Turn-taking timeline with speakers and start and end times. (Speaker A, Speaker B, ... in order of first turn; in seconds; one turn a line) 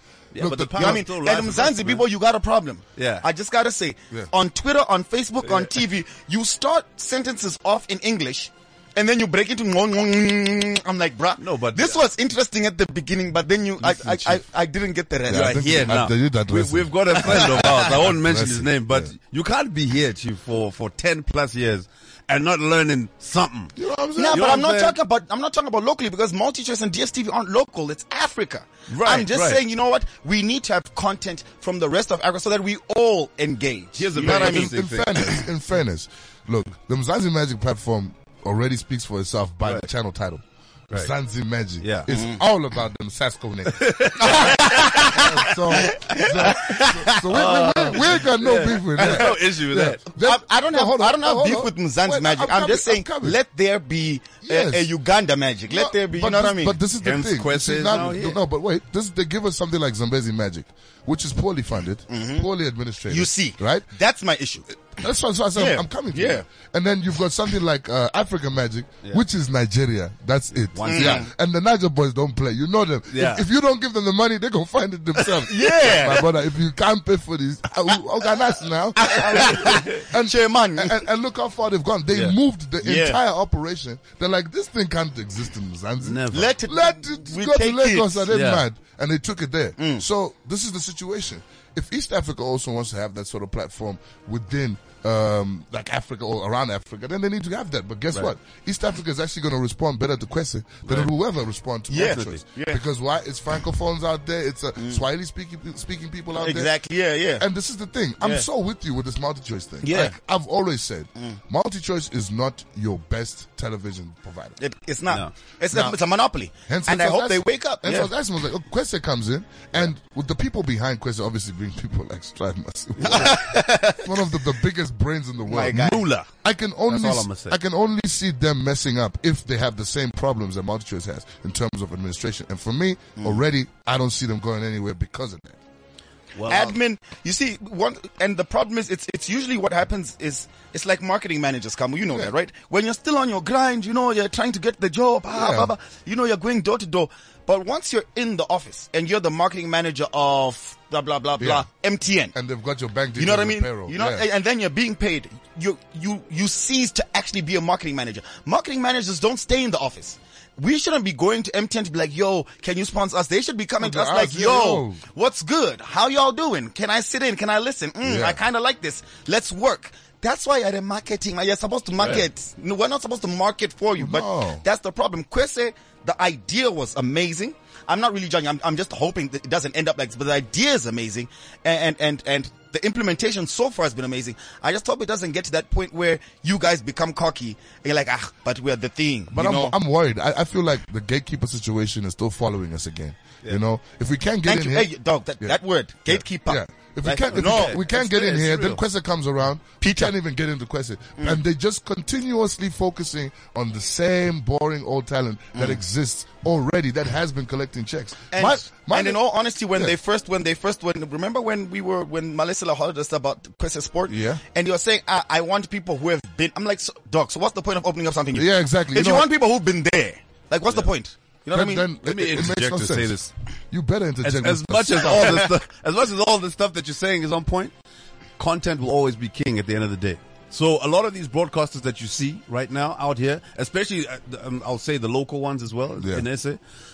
Speaker A: 0.3-2.1
Speaker B: 0.4-1.1
Speaker C: 0.8-16.0
Speaker A: 3.0-3.2
Speaker A: 5.4-5.7
Speaker A: 11.4-12.0
Speaker A: 13.8-14.4
Speaker B: 15.3-19.1
Speaker A: 15.3-23.7
Speaker C: 17.2-17.9
Speaker B: 23.8-24.5
Speaker C: 24.2-34.7
Speaker A: 24.3-25.0
Speaker A: 28.9-29.6
Speaker A: 34.0-35.5
Speaker B: 34.2-53.4
Speaker A: 41.8-42.1
Speaker C: 42.1-42.4
Speaker A: 43.7-45.2
Speaker C: 44.2-47.3
Speaker A: 47.3-50.0
Speaker C: 50.2-56.8
Speaker B: 54.4-54.9
Speaker B: 55.7-63.9
Speaker A: 57.0-58.4
Speaker C: 62.1-62.5
Speaker C: 63.1-64.7
Speaker B: 64.9-106.7
Speaker C: 65.5-66.4
Speaker A: 70.7-71.3
Speaker C: 70.8-71.3
Speaker A: 73.1-73.4
Speaker C: 75.4-76.3
Speaker C: 79.0-81.0
Speaker C: 82.8-83.2
Speaker A: 86.0-86.5
Speaker C: 86.3-88.2
Speaker A: 88.3-88.7
Speaker C: 89.8-90.0
Speaker A: 100.9-101.1
Speaker C: 101.9-102.8
Speaker A: 102.0-102.4
Speaker C: 106.3-107.5
Speaker B: 107.4-114.6
Speaker C: 108.2-108.5
Speaker C: 109.8-110.1
Speaker C: 114.6-118.1
Speaker B: 116.7-123.4
Speaker C: 123.0-124.1
Speaker B: 124.0-135.6
Speaker C: 125.5-126.2
Speaker A: 125.7-126.2
Speaker A: 126.9-127.6
Speaker A: 136.3-136.8
Speaker C: 136.5-152.3
Speaker B: 145.3-145.7
Speaker B: 151.4-151.7
Speaker B: 152.3-154.2
Speaker C: 153.2-189.7
Speaker B: 163.8-165.0
Speaker B: 168.0-168.4
Speaker B: 174.0-174.6
Speaker B: 189.3-195.6
Speaker C: 194.4-197.8
Speaker B: 196.1-209.2
Speaker A: 197.3-198.8
Speaker C: 199.8-200.1
Speaker C: 205.5-205.8
Speaker C: 208.3-221.9
Speaker B: 214.1-214.4
Speaker B: 218.3-219.3
Speaker B: 221.5-223.2
Speaker A: 222.0-223.3
Speaker B: 223.7-225.5
Speaker A: 224.2-227.7
Speaker C: 225.1-225.4
Speaker A: 228.4-236.6
Speaker B: 236.0-236.3